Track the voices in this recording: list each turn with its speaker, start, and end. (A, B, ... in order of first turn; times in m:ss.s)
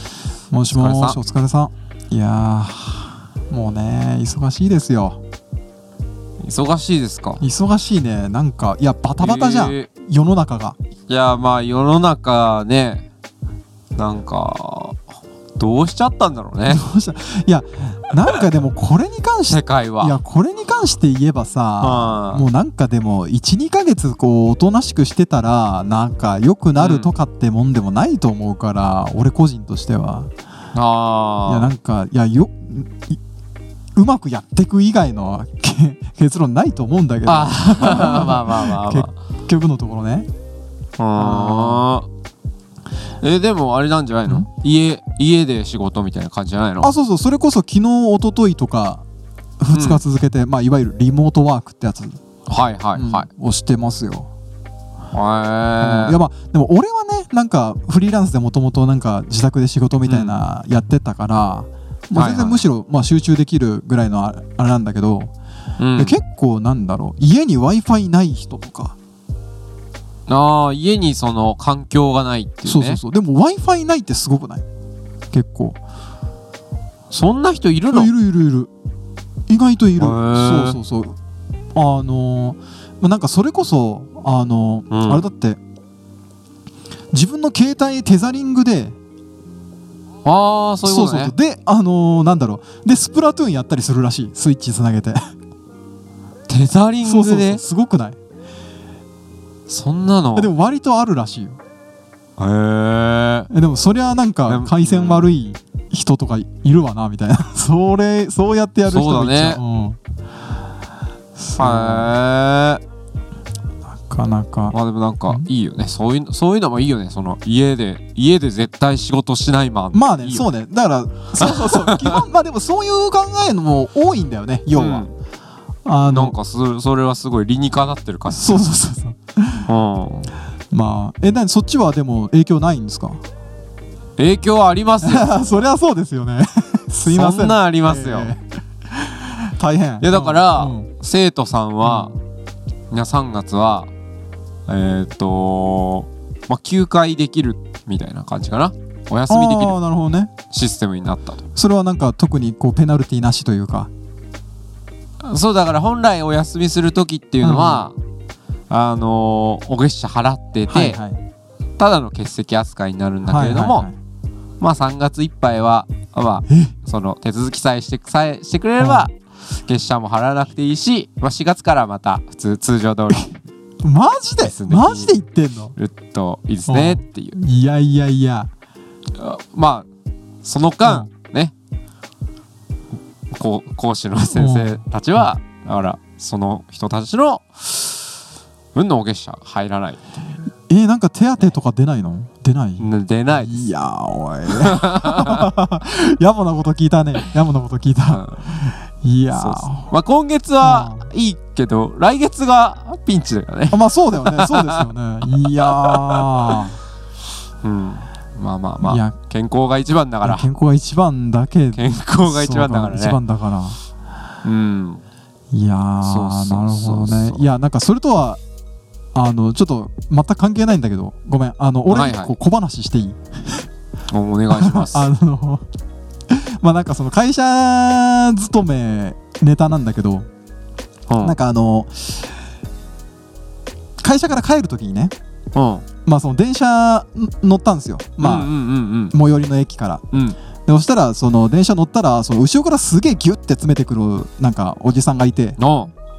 0:00.5-0:05.2 A
0:00.7-0:01.2 B
0:06.4-0:07.4 B
0:07.4-0:10.8 A
0:09.2-0:09.9 B
0:11.1-0:13.0 B
0:14.0-0:15.0 B
0:15.6-0:16.8 B
0:16.7-0:30.3 A
0:19.5-0:20.2 B
0:21.8-0:22.5 B
0:26.8-0:27.1 B
0:30.7-0:31.7 B
0:31.5-0:33.2 A
0:34.0-0:40.3 A
0:37.3-0:39.1 B
0:41.0-0:42.1 B
0:41.2-0:41.9 A
0:43.2-0:46.9 B
0:46.8-0:49.0 A
0:49.6-0:52.2 A
0:49.7-0:50.0 B
0:52.5-0:53.3 B
0:53.0-0:54.3 A
0:55.1-0:56.2 B
0:55.8-1:05.3 A
1:00.1-1:00.4 B
1:02.2-1:02.6 B
1:05.8-1:06.2 B
1:06.0-1:09.0 A
1:10.3-1:13.0 B
1:12.6-1:14.6 A
1:15.3-1:15.8 A
1:17.1-1:18.1 B
1:17.9-1:18.7 A
1:19.5-1:21.2 A
1:20.0-1:20.8 B
1:21.7-1:25.6 A
1:24.9-1:25.2 B
1:27.1-1:29.0 A
1:30.2-1:31.3 B
1:30.8-1:35.2 A
1:36.5-1:37.6 B
1:37.0-1:38.2 A
1:39.7-1:40.5 B
1:40.4-1:41.6 A
1:42.4-1:43.5 B
1:43.5-1:50.0 A
1:44.5-1:45.3 B
1:48.9-1:49.6 B
1:51.4-1:52.1 A
1:51.6-1:52.8 B
1:54.0-1:54.8 A
1:54.7-2:00.5 B
1:59.9-2:05.0 A
2:01.4-2:02.2 B
2:04.7-2:05.1 B
2:05.8-2:06.4 A
2:06.1-2:08.6 B
2:08.3-2:09.7 A
2:09.7-2:10.3 B
2:10.7-2:13.2 A
2:14.2-2:15.6 B
2:15.0-2:20.9 A
2:17.0-2:18.3 B
2:20.0-2:22.2 B
2:21.8-2:22.1 A
2:22.9-2:23.9 B
2:24.7-2:29.8 B
2:29.3-2:30.3 A
2:30.5-2:31.4 B
2:31.6-2:33.9 A
2:35.2-2:38.0 B
2:37.4-2:37.9 A
2:38.7-2:41.0 B
2:40.7-2:41.2 A
2:41.8-2:43.9 B
2:43.3-2:44.0 A
2:44.6-2:49.1 B
2:46.5-2:46.7 A
2:48.8-2:49.1 A
2:49.6-2:53.4 B
2:53.8-2:55.7 A
2:54.4-2:55.1 B
2:55.8-2:57.4 B
2:56.7-2:58.5 A
2:59.2-2:59.9 B
3:00.4-3:01.5 B
3:00.8-3:01.1 A
3:03.3-3:08.0 B
3:04.2-3:04.8 A
3:08.8-3:10.0 B
3:10.7-3:19.9 A
3:12.8-3:13.7 B
3:14.5-3:15.5 B
3:18.1-3:18.5 B
3:19.3-3:24.9 B
3:20.6-3:21.1 A
3:23.7-3:26.8 A
3:25.4-3:26.6 B
3:27.6-3:30.5 B
3:28.8-3:29.1 A
3:30.2-3:33.8 A
3:31.8-3:33.2 B
3:34.4-3:35.0 B
3:35.5-3:38.4 A
3:36.0-3:37.4 B
3:39.1-3:43.7 A
3:41.9-3:42.4 B
3:44.1-3:45.1 B
3:44.5-3:45.6 A
3:46.3-3:50.3 A
3:51.1-3:51.4 B
3:51.2-3:52.3 A
3:54.0-3:55.1 A
3:55.6-3:55.8 B
3:56.1-3:58.5 A
3:58.2-3:59.1 B
3:59.1-4:00.0 A
4:00.1-4:00.4 B
4:00.7-4:05.6 A
4:05.6-4:05.9 B